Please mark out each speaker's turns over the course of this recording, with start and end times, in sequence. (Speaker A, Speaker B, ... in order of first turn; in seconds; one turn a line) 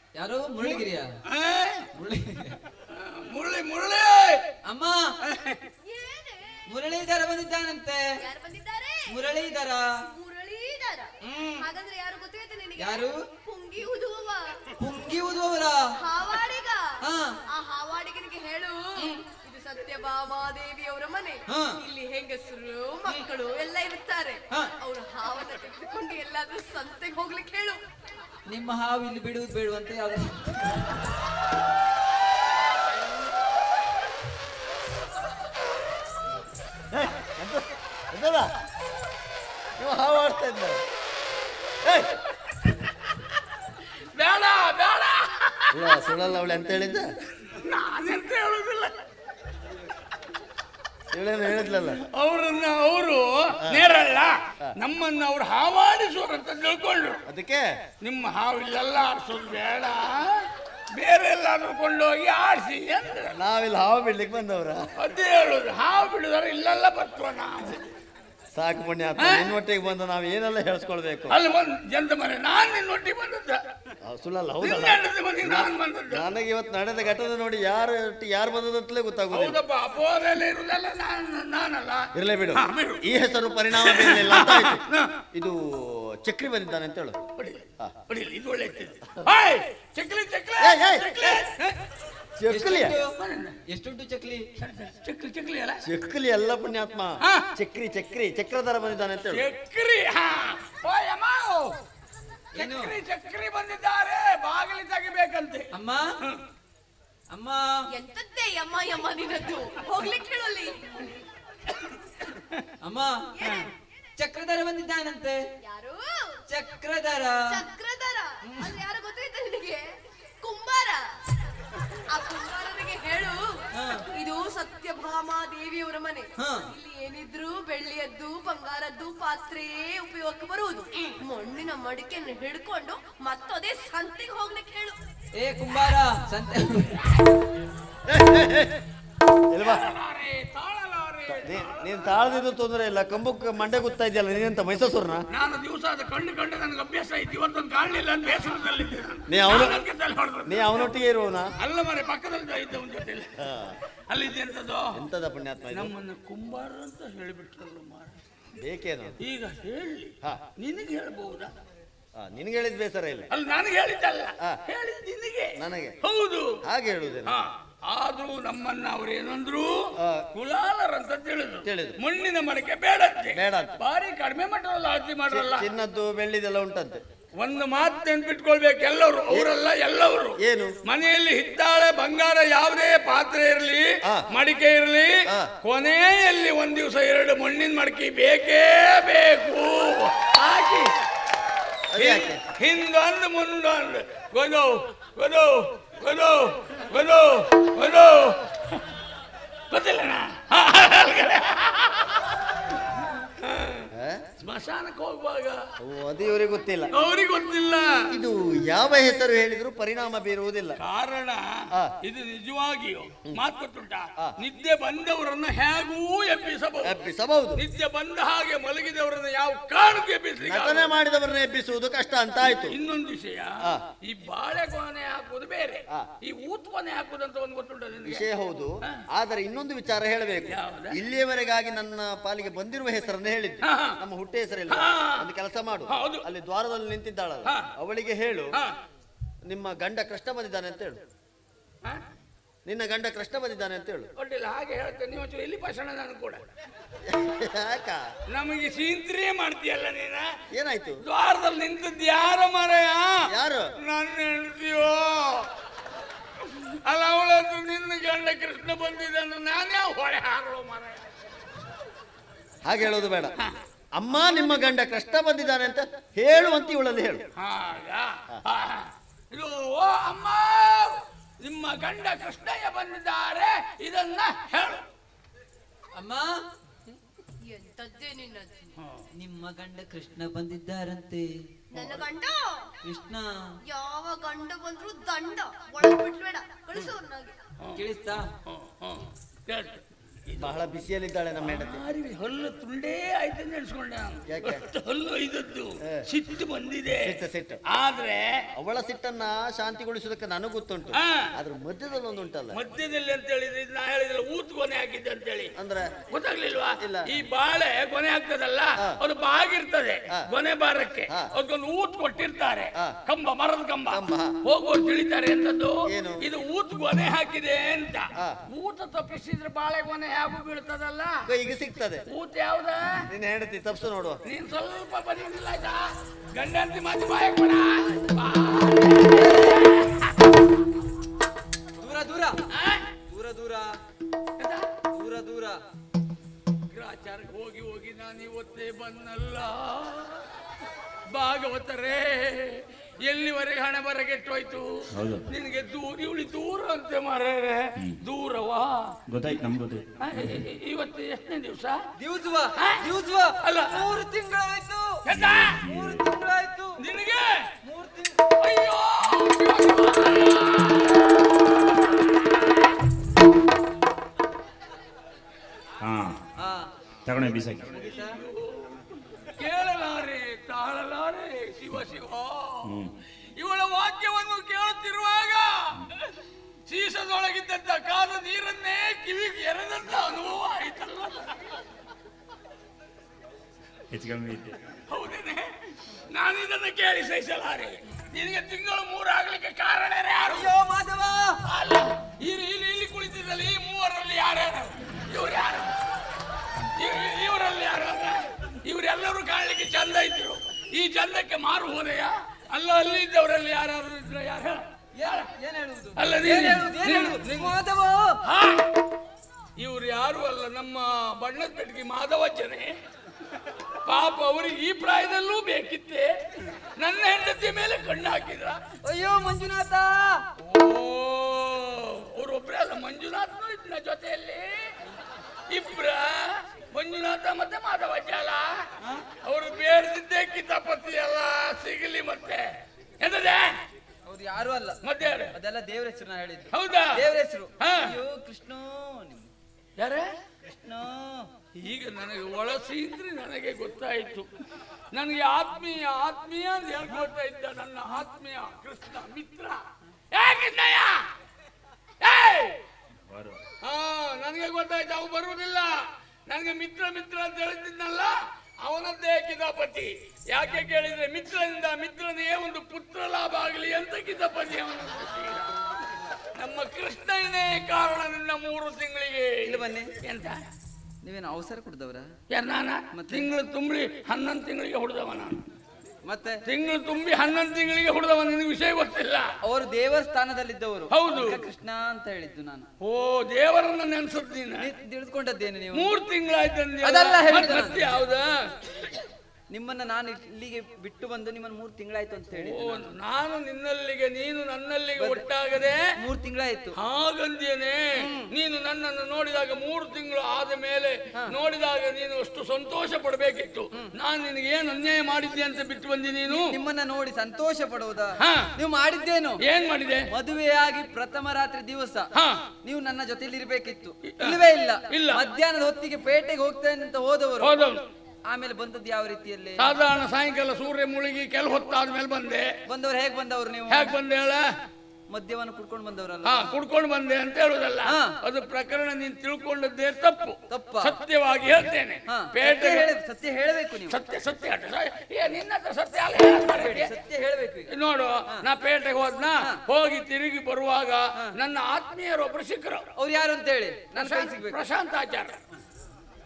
Speaker A: 0.2-1.1
Speaker B: 0.6-1.9
Speaker A: 1.9-2.6
Speaker B: 2.9-4.4
Speaker A: 4.6-5.1
Speaker B: 5.2-5.6
Speaker C: 5.8-6.6
Speaker A: 6.7-8.1
Speaker C: 8.2-9.1
Speaker A: 9.1-9.9
Speaker C: 10.1-14.8
Speaker A: 11.2-11.6
Speaker A: 12.8-13.2
Speaker A: 14.8-15.8
Speaker C: 16.0-27.8
Speaker A: 17.0-17.4
Speaker A: 21.5-21.8
Speaker A: 28.5-31.0
Speaker D: 36.9-38.5
Speaker D: 39.8-40.8
Speaker D: 41.8-42.2
Speaker B: 44.1-46.0
Speaker D: 45.7-47.1
Speaker B: 47.5-49.0
Speaker D: 51.1-52.0
Speaker B: 51.9-57.2
Speaker D: 57.3-57.7
Speaker B: 58.0-63.4
Speaker D: 63.3-64.9
Speaker B: 65.0-67.9
Speaker D: 68.5-71.4
Speaker B: 69.2-69.5
Speaker B: 71.3-73.6
Speaker D: 74.0-79.6
Speaker B: 74.6-76.2
Speaker B: 79.3-83.1
Speaker D: 82.1-87.2
Speaker B: 83.8-85.1
Speaker B: 87.4-91.8
Speaker D: 90.6-91.4
Speaker D: 92.4-93.0
Speaker A: 92.5-93.1
Speaker B: 93.2-93.6
Speaker A: 93.7-94.5
Speaker B: 94.6-95.8
Speaker D: 95.8-99.5
Speaker B: 97.2-97.5
Speaker B: 99.3-101.7
Speaker A: 102.5-103.0
Speaker B: 102.6-105.7
Speaker A: 105.7-106.1
Speaker A: 107.3-107.6
Speaker C: 107.9-110.7
Speaker A: 112.8-113.3
Speaker C: 113.4-113.7
Speaker B: 113.4-113.7
Speaker A: 114.2-115.4
Speaker C: 115.6-116.4
Speaker A: 116.5-117.4
Speaker C: 117.5-119.9
Speaker A: 118.5-118.7
Speaker C: 120.4-121.1
Speaker C: 122.1-135.0
Speaker A: 123.8-124.1
Speaker A: 126.4-126.7
Speaker A: 135.4-137.1
Speaker D: 138.1-138.8
Speaker D: 139.5-139.9
Speaker B: 139.6-142.1
Speaker D: 141.3-145.2
Speaker B: 145.3-150.9
Speaker D: 149.3-149.8
Speaker D: 150.5-151.5
Speaker B: 151.6-153.4
Speaker D: 153.4-153.8
Speaker B: 154.1-155.0
Speaker D: 154.9-155.9
Speaker B: 155.7-158.2
Speaker D: 158.6-159.1
Speaker B: 159.2-161.5
Speaker D: 162.2-163.3
Speaker B: 163.3-166.6
Speaker D: 165.6-166.0
Speaker D: 166.6-167.4
Speaker B: 167.2-175.7
Speaker D: 171.6-172.0
Speaker D: 173.3-173.8
Speaker D: 175.3-177.0
Speaker B: 177.4-190.9
Speaker D: 180.4-180.7
Speaker D: 191.9-192.4
Speaker B: 192.0-198.8
Speaker B: 199.7-202.4
Speaker B: 203.4-203.9
Speaker D: 203.9-204.2
Speaker B: 204.4-205.6
Speaker D: 205.8-206.9
Speaker B: 206.9-208.1
Speaker D: 208.1-210.8
Speaker B: 210.8-217.0
Speaker D: 216.8-217.6
Speaker B: 217.6-220.9
Speaker D: 220.4-222.8
Speaker B: 222.5-228.2
Speaker D: 228.0-238.6
Speaker B: 230.5-231.0
Speaker B: 233.6-234.0
Speaker B: 234.7-235.3
Speaker B: 235.9-236.2
Speaker D: 239.5-241.0
Speaker D: 242.7-244.1
Speaker B: 244.2-246.4
Speaker D: 247.0-248.1
Speaker B: 248.3-250.3
Speaker D: 250.5-251.0
Speaker B: 251.1-253.3
Speaker D: 253.3-253.7
Speaker B: 253.8-255.5
Speaker B: 256.4-261.1
Speaker D: 262.6-263.3
Speaker D: 264.0-267.2
Speaker B: 267.4-274.8
Speaker A: 275.9-276.4
Speaker C: 277.4-278.7
Speaker A: 279.1-281.3
Speaker C: 281.7-282.7
Speaker D: 281.7-282.1
Speaker A: 282.8-283.6
Speaker C: 283.7-287.4
Speaker A: 287.8-288.3
Speaker B: 288.4-290.6
Speaker D: 290.4-291.9
Speaker B: 291.4-298.4
Speaker D: 294.3-294.6
Speaker D: 297.0-297.6
Speaker D: 298.6-302.6
Speaker B: 300.9-301.3
Speaker B: 302.5-305.5
Speaker D: 305.6-306.1
Speaker B: 306.1-321.3
Speaker D: 306.8-307.1
Speaker D: 313.9-314.4
Speaker D: 315.9-316.3
Speaker D: 321.3-322.0
Speaker B: 322.1-323.1
Speaker D: 323.1-324.2
Speaker B: 324.3-330.1
Speaker A: 329.1-329.6
Speaker A: 331.8-332.4
Speaker B: 332.5-332.9
Speaker A: 333.1-333.8
Speaker B: 334.4-334.7
Speaker A: 334.9-335.6
Speaker B: 336.7-340.3
Speaker B: 341.1-348.9
Speaker E: 344.9-345.3
Speaker E: 349.1-350.4
Speaker B: 350.0-351.8
Speaker A: 352.0-355.0
Speaker B: 353.4-353.9
Speaker B: 355.1-355.6
Speaker E: 355.1-356.1
Speaker A: 355.6-356.8
Speaker B: 356.8-357.5
Speaker A: 357.6-358.3
Speaker B: 358.4-362.6
Speaker E: 365.8-366.1
Speaker A: 366.4-366.7
Speaker E: 367.1-367.8
Speaker A: 367.7-368.2
Speaker B: 367.8-372.8
Speaker E: 372.6-372.9
Speaker B: 373.4-376.1
Speaker B: 376.7-381.6
Speaker E: 383.9-384.6
Speaker B: 384.9-390.5
Speaker A: 390.2-391.4
Speaker B: 391.4-395.8
Speaker B: 396.7-405.3
Speaker A: 404.9-408.2
Speaker B: 406.0-407.6
Speaker B: 408.2-408.7
Speaker B: 409.6-412.7
Speaker B: 413.8-418.6
Speaker A: 418.8-420.2
Speaker B: 420.4-424.8
Speaker B: 425.5-428.7
Speaker B: 429.2-432.4
Speaker B: 433.0-433.6
Speaker A: 434.1-434.8
Speaker B: 434.8-435.3
Speaker A: 435.3-439.3
Speaker B: 436.5-437.0
Speaker B: 437.6-437.9
Speaker B: 439.8-440.1
Speaker A: 440.4-441.3
Speaker B: 441.6-444.3
Speaker B: 444.9-451.1
Speaker B: 452.0-452.5
Speaker E: 453.1-453.4
Speaker B: 453.6-465.5
Speaker B: 466.4-470.4
Speaker A: 469.4-469.9
Speaker A: 471.0-472.1
Speaker B: 472.3-475.4
Speaker A: 472.9-473.3
Speaker A: 476.1-476.4
Speaker B: 476.4-479.3
Speaker A: 479.4-482.7
Speaker B: 480.9-481.4
Speaker B: 482.8-484.7
Speaker A: 484.6-485.9
Speaker B: 485.7-488.9
Speaker A: 486.8-487.9
Speaker A: 489.5-492.9
Speaker B: 492.3-495.8
Speaker A: 495.0-495.2
Speaker A: 495.9-496.8
Speaker B: 496.8-506.5
Speaker A: 498.0-498.3
Speaker A: 506.3-509.4
Speaker B: 508.2-508.5
Speaker B: 509.4-510.1
Speaker A: 510.1-512.1
Speaker B: 512.1-512.4
Speaker A: 512.6-517.7
Speaker B: 514.0-515.3
Speaker B: 517.4-517.8
Speaker A: 518.3-519.7
Speaker B: 519.6-522.5
Speaker A: 522.7-523.9
Speaker B: 523.7-524.5
Speaker A: 525.1-526.5
Speaker B: 526.2-532.9
Speaker A: 527.9-528.2
Speaker A: 530.5-531.0
Speaker A: 532.1-534.0
Speaker B: 533.9-536.9
Speaker A: 536.3-537.7
Speaker B: 537.7-542.9
Speaker A: 543.0-544.6
Speaker B: 544.0-545.4